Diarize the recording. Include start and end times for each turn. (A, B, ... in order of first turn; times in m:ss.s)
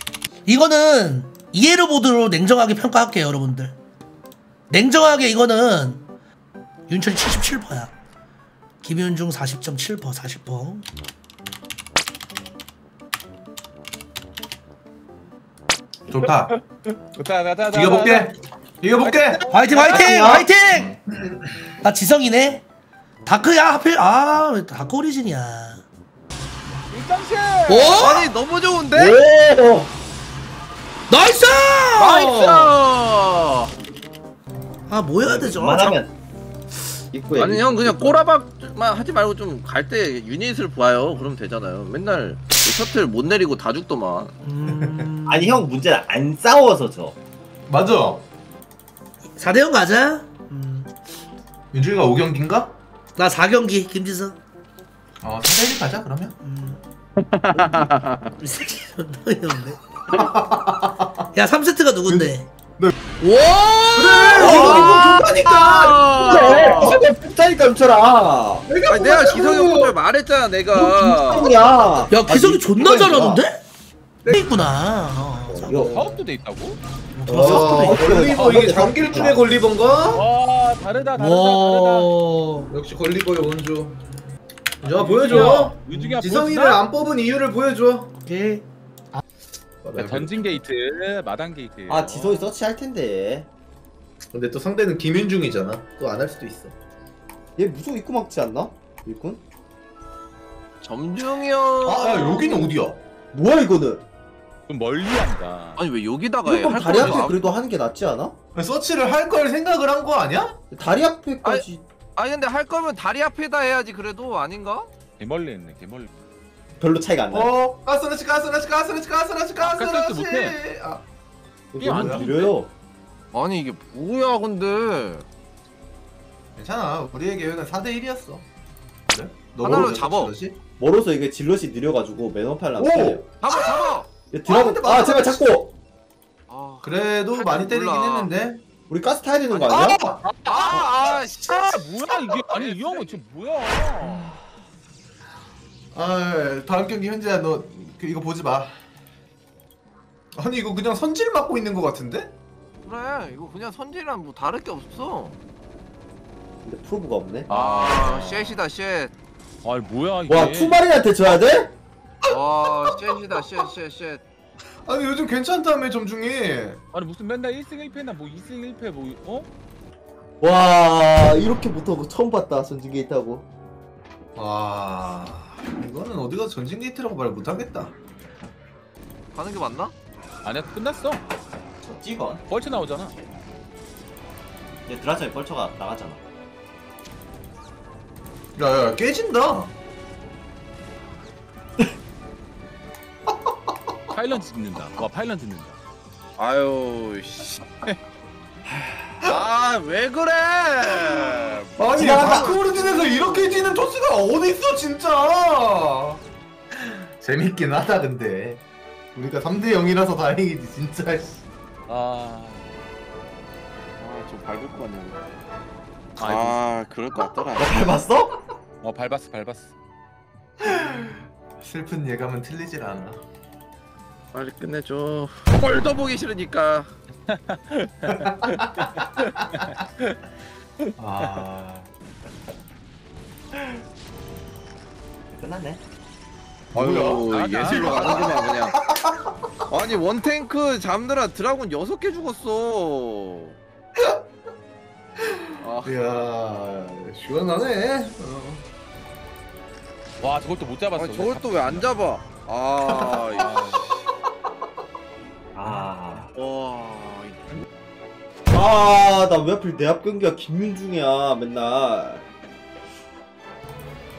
0:00.4-0:03.8 A
0:04.7-0:06.0 A
0:06.9-0:07.9 A
0:08.8-0:10.8 A
0:16.1-0:16.5 B
0:16.5-0:18.3 C
0:17.7-0:20.8 B
0:19.0-0:20.3 C
0:19.5-0:21.0 A
0:19.7-0:20.0 D
0:21.8-0:22.6 A
0:23.2-0:25.8 A
0:26.9-0:28.0 C
0:27.7-0:28.3 A
0:28.0-0:29.2 D
0:28.9-0:29.9 E
0:31.1-0:32.6 A
0:32.0-0:33.7 D
0:34.9-0:36.0 A
0:35.2-0:36.1 E
0:37.1-0:38.2 E
0:37.3-0:44.3 D
0:44.4-0:45.6 A
0:45.2-0:47.2 E
0:47.7-0:48.3 B
0:49.4-0:50.9 A
0:51.7-0:52.8 B
0:53.2-0:54.4 A
0:55.2-0:56.4 B
0:56.4-0:56.8 A
0:57.2-0:58.3 D
0:57.6-0:57.9 A
0:58.4-1:00.3 A
1:00.1-1:01.3 B
1:01.3-1:02.5 A
1:02.1-1:03.0 B
1:03.2-1:06.9 A
1:03.9-1:07.0 B
1:04.1-1:07.0 D
1:04.4-1:05.1 E
1:06.2-1:08.7 E
1:08.7-1:09.9 B
1:08.9-1:11.5 D
1:10.7-1:13.4 E
1:12.1-1:13.6 A
1:14.2-1:14.6 B
1:14.3-1:16.0 A
1:15.5-1:16.0 E
1:15.5-1:16.1 B
1:15.8-1:16.8 C
1:17.1-1:18.0 A
1:17.2-1:19.4 E
1:17.3-1:20.2 B
1:20.1-1:22.1 C
1:21.2-1:22.7 A
1:22.7-1:24.0 B
1:24.8-1:28.2 B
1:24.8-1:26.8 C
1:25.3-1:25.6 E
1:28.2-1:28.6 A
1:29.8-1:30.6 B
1:30.0-1:32.5 C
1:31.9-1:33.5 E
1:34.3-1:36.7 B
1:37.6-1:39.4 E
1:40.8-1:42.7 D
1:41.8-1:43.0 B
1:43.3-1:44.0 E
1:44.7-1:45.8 C
1:45.8-1:47.6 D
1:46.4-1:48.3 E
1:46.9-1:47.3 B
1:48.5-1:50.6 B
1:50.7-1:51.8 E
1:52.2-1:54.9 D
1:55.2-1:56.1 C
1:56.8-1:57.5 E
1:57.3-2:01.0 B
1:59.6-2:00.6 C
2:01.7-2:02.7 E
2:01.8-2:02.5 C
2:01.8-2:02.3 B
2:03.3-2:05.2 D
2:06.6-2:08.4 B
2:09.1-2:10.6 B
2:09.6-2:10.3 D
2:10.8-2:13.2 E
2:12.8-2:15.5 B
2:13.4-2:14.1 D
2:14.3-2:15.7 E
2:16.5-2:18.3 D
2:16.8-2:18.6 B
2:18.9-2:20.0 E
2:19.5-2:23.2 D
2:19.7-2:21.8 B
2:20.2-2:24.3 C
2:25.9-2:28.8 B
2:30.3-2:32.3 B
2:32.8-2:35.4 D
2:36.6-2:37.5 E
2:37.5-2:38.6 C
2:37.5-2:39.1 D
2:39.6-2:40.8 C
2:40.3-2:41.7 E
2:42.3-2:44.2 D
2:44.8-2:46.8 B
2:46.9-2:49.5 C
2:50.4-2:53.4 E
2:54.4-2:58.0 B
2:59.3-2:59.9 D
3:00.4-3:01.2 C
3:01.8-3:02.4 E
3:02.5-3:03.1 C
3:04.8-3:06.2 E
3:08.6-3:09.7 B
3:14.1-3:15.8 C
3:16.4-3:17.6 D
3:18.7-3:19.1 E
3:19.2-3:23.8 D
3:21.8-3:26.2 B
3:22.0-3:22.6 E
3:26.7-3:28.6 B
3:29.1-3:31.4 B
3:31.9-3:32.6 C
3:34.0-3:35.2 D
3:36.2-3:36.6 C
3:36.2-3:38.0 D
3:37.5-3:38.4 E
3:38.8-3:39.7 C
3:40.6-3:43.2 B
3:44.3-3:46.9 D
3:47.3-3:50.2 C
3:48.1-3:49.5 B
3:50.8-3:51.4 C
3:51.0-3:51.9 B
3:55.3-3:55.8 E
3:56.7-3:58.8 D
3:56.7-3:59.3 B
3:57.3-3:58.4 C
3:59.7-4:03.6 D
4:05.2-4:08.6 B
4:05.6-4:06.0 D
4:10.2-4:11.9 C
4:11.0-4:13.6 D
4:12.9-4:13.2 B
4:13.1-4:13.8 C
4:15.5-4:16.3 E
4:16.3-4:17.6 D
4:18.5-4:22.2 E